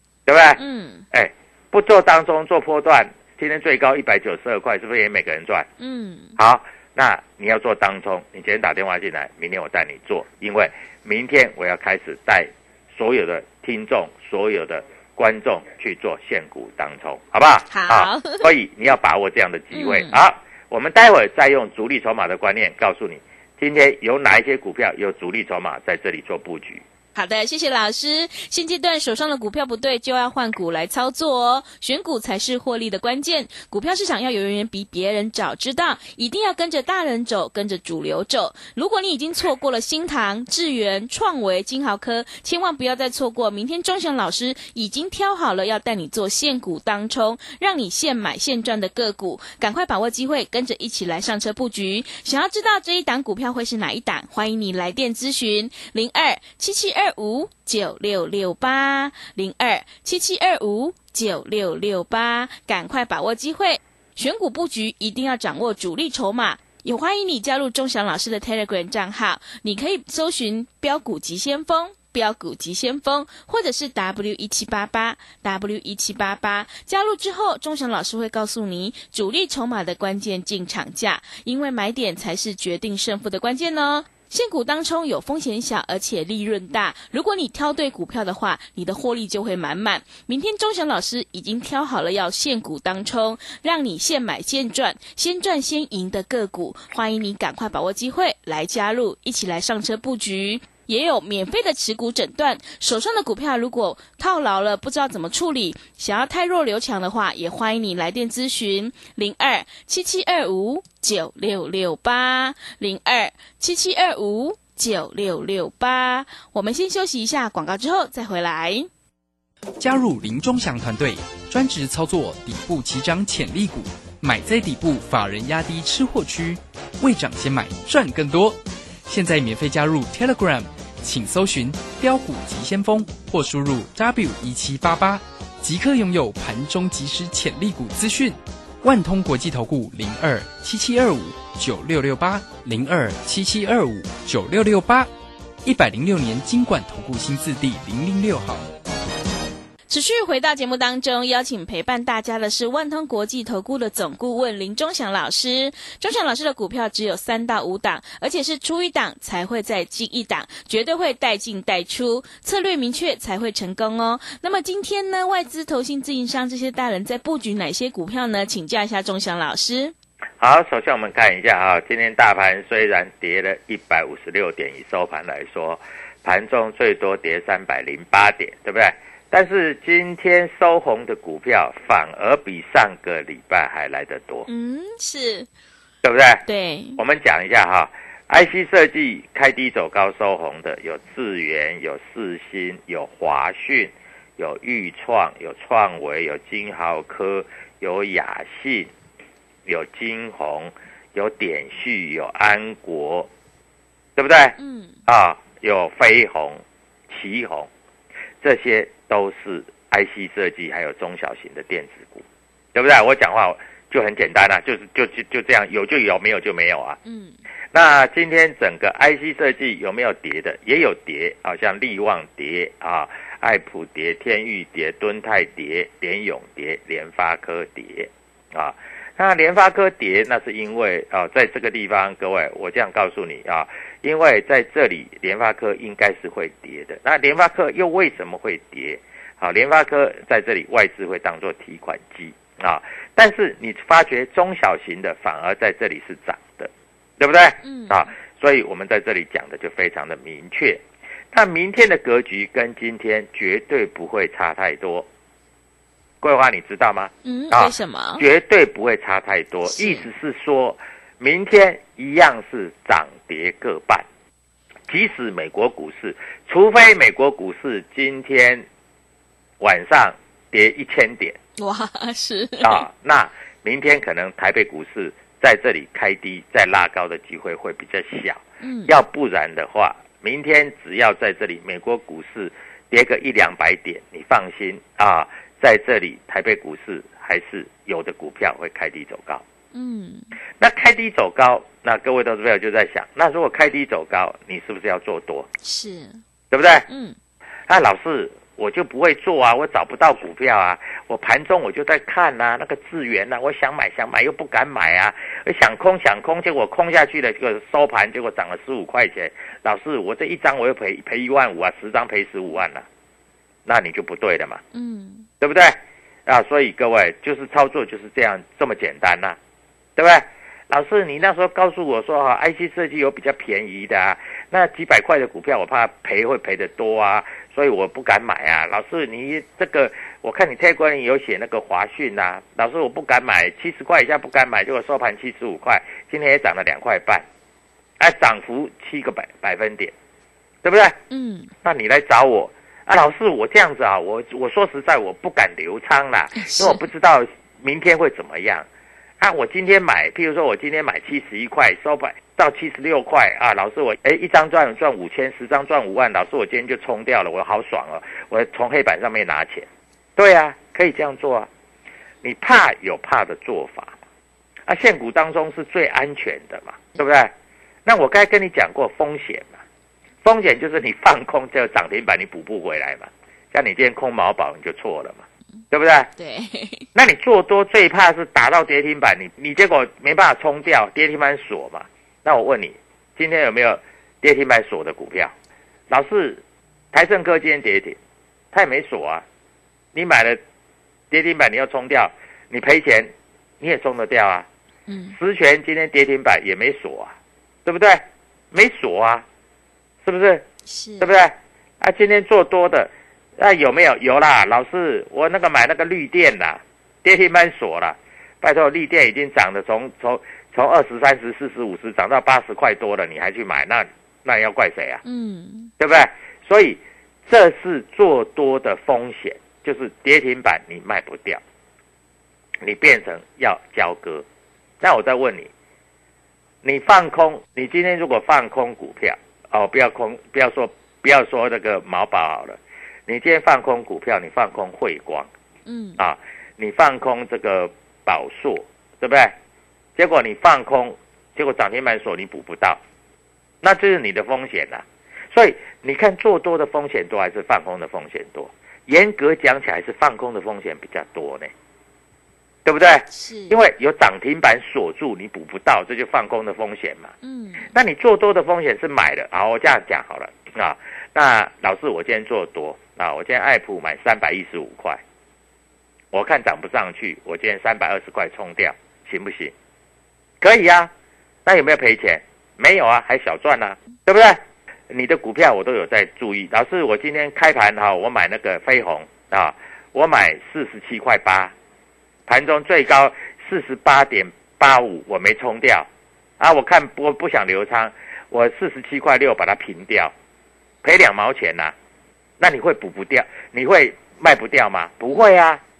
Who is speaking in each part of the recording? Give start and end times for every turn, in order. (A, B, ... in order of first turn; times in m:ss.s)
0:00.2-0:00.6 A
0:00.6-0:01.0 B
0:01.1-0:05.7 A
0:05.8-0:06.4 B
0:06.4-0:26.8 A
0:17.7-0:18.5 B
0:19.7-0:20.2 B
0:27.1-1:58.9 B
1:59.8-2:25.1 C
2:25.6-2:28.7 C
2:29.9-2:49.9 B
2:50.4-3:04.5 A
3:04.5-3:05.5 B
3:06.0-3:06.4 A
3:06.4-3:07.0 B
3:07.0-3:18.9 A
3:19.6-3:23.3 A
3:24.2-3:27.7 A
3:24.6-3:25.0 B
3:28.4-3:37.0 A
3:37.0-3:37.4 B
3:37.7-4:15.1 A
4:07.6-4:08.1 B
4:16.2-4:24.0 A
4:17.2-4:18.2 B
4:19.6-4:20.0 B
4:24.9-4:28.6 A
4:29.6-4:31.4 A
4:31.6-4:32.8 B
4:32.6-4:49.4 A
4:38.6-4:38.9 B
4:49.7-4:50.3 B
4:50.6-4:55.5 A
4:55.6-4:56.2 B
4:56.5-4:56.8 A
4:56.9-4:57.2 B
4:57.7-5:12.9 A
5:13.6-5:14.6 A
5:14.7-5:15.3 B
5:15.4-5:19.4 A
5:20.0-5:37.2 A
5:38.0-5:39.9 A
5:40.6-5:41.0 A
5:41.1-5:41.5 B
5:41.6-5:48.7 A
5:46.4-5:46.8 B
5:49.2-6:01.5 A
6:02.2-6:04.0 A
6:04.7-6:07.3 A
6:07.8-6:09.6 A
6:10.2-6:16.1 A
6:16.2-6:16.8 B
6:16.9-6:25.3 A
6:25.9-6:28.0 A
6:28.5-6:29.2 A
6:29.9-6:30.4 A
6:31.1-6:34.5 A
6:34.9-6:35.2 B
6:35.1-6:39.2 A
6:40.0-6:40.4 A
6:40.7-6:41.1 B
6:41.0-6:55.0 A
6:55.0-6:55.7 B
6:55.8-7:01.4 A
7:02.6-7:04.2 A
7:04.8-7:05.5 A
7:06.6-7:15.3 A
7:15.7-7:16.0 B
7:16.0-7:19.4 A
7:20.0-7:22.8 A
7:23.6-7:31.5 A
7:32.6-7:37.1 A
7:33.1-7:33.6 B
7:37.2-7:37.7 B
7:37.7-7:45.0 A
7:46.1-7:49.5 A
7:50.4-7:50.9 A
7:51.4-8:01.5 A
8:02.3-8:05.9 A
8:06.4-8:10.1 A
8:10.8-8:11.7 A
8:12.4-8:15.6 A